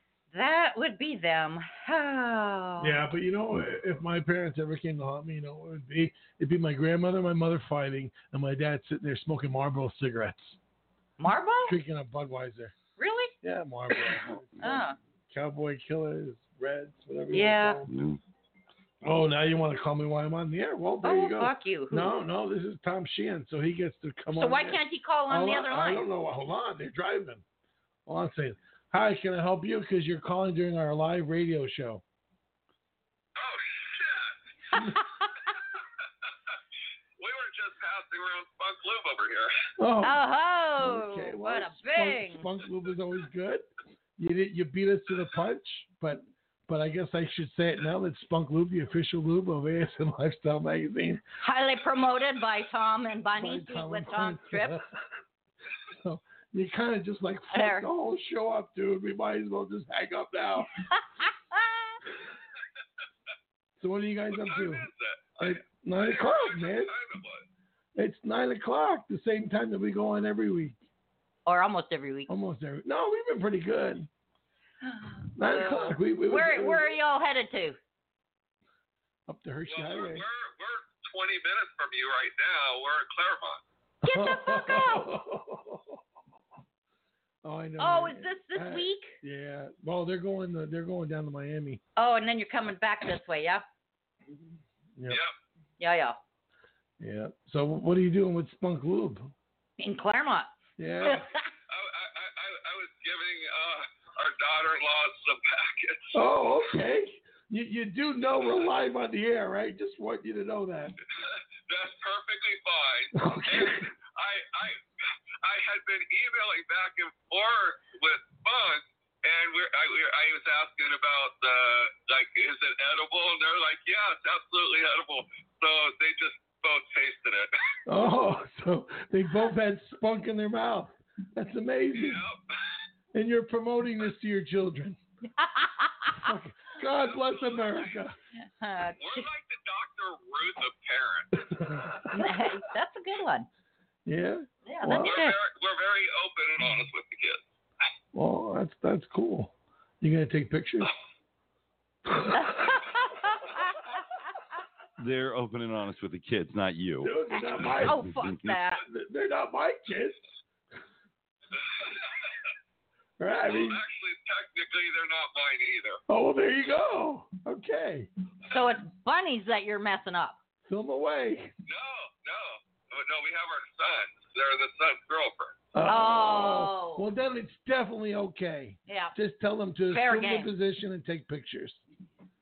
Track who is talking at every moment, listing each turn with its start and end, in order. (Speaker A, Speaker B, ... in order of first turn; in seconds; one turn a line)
Speaker A: 0.3-2.9
Speaker B: 2.8-10.6
Speaker A: 11.2-11.8
Speaker B: 11.7-12.7
Speaker A: 13.0-13.3
Speaker B: 13.4-14.8
Speaker A: 14.6-15.0
Speaker B: 15.3-17.9
Speaker A: 17.3-17.8
Speaker C: 17.9-18.2
Speaker B: 19.0-27.4
Speaker A: 21.0-22.1
Speaker A: 24.3-26.0
Speaker B: 28.1-32.0
Speaker D: 33.4-34.4
Speaker A: 34.7-35.3
Speaker D: 37.2-39.5
Speaker B: 39.8-40.2
Speaker A: 40.0-42.5
Speaker B: 40.8-43.7
Speaker B: 44.2-51.2
Speaker A: 51.4-54.8
Speaker B: 53.4-55.0
Speaker B: 55.9-60.7
Speaker A: 57.5-57.9
Speaker A: 61.5-61.8
Speaker B: 63.8-66.9
Speaker D: 64.3-67.4
Speaker B: 68.0-70.8
Speaker A: 71.5-72.3
Speaker B: 72.3-74.1
Speaker A: 74.8-77.8
Speaker B: 75.4-77.0
Speaker B: 79.3-80.2
Speaker D: 79.7-83.6
Speaker B: 84.0-86.0
Speaker A: 84.0-85.1
Speaker B: 87.4-91.8
Speaker A: 87.8-89.2
Speaker A: 92.0-93.6
Speaker D: 95.1-95.3
Speaker A: 95.8-96.2
Speaker B: 97.0-99.3
Speaker A: 99.8-100.5
Speaker B: 100.8-101.3
Speaker A: 101.0-101.4
Speaker D: 101.7-106.2
Speaker B: 106.1-111.0
Speaker D: 111.2-114.8
Speaker B: 113.1-113.9
Speaker D: 115.4-127.5
Speaker B: 127.8-132.2
Speaker D: 131.9-132.4
Speaker B: 133.1-135.0
Speaker A: 135.4-136.3
Speaker B: 136.1-138.2
Speaker D: 137.0-137.9
Speaker A: 138.6-139.3
Speaker D: 139.0-141.4
Speaker B: 141.4-142.3
Speaker A: 142.1-143.5
Speaker B: 144.1-145.2
Speaker A: 144.7-145.3
Speaker D: 145.0-147.4
Speaker B: 148.1-150.9
Speaker B: 152.1-152.8
Speaker A: 152.3-153.8
Speaker C: 155.0-157.1
Speaker B: 157.0-158.1
Speaker A: 157.7-158.8
Speaker C: 158.2-158.5
Speaker B: 158.8-160.2
Speaker B: 163.2-163.8
Speaker D: 163.3-166.0
Speaker B: 166.1-168.1
Speaker A: 168.5-170.4
Speaker B: 170.7-171.5
Speaker D: 171.7-175.5
Speaker B: 175.7-181.8
Speaker A: 175.8-177.1
Speaker A: 178.9-179.1
Speaker A: 179.9-180.5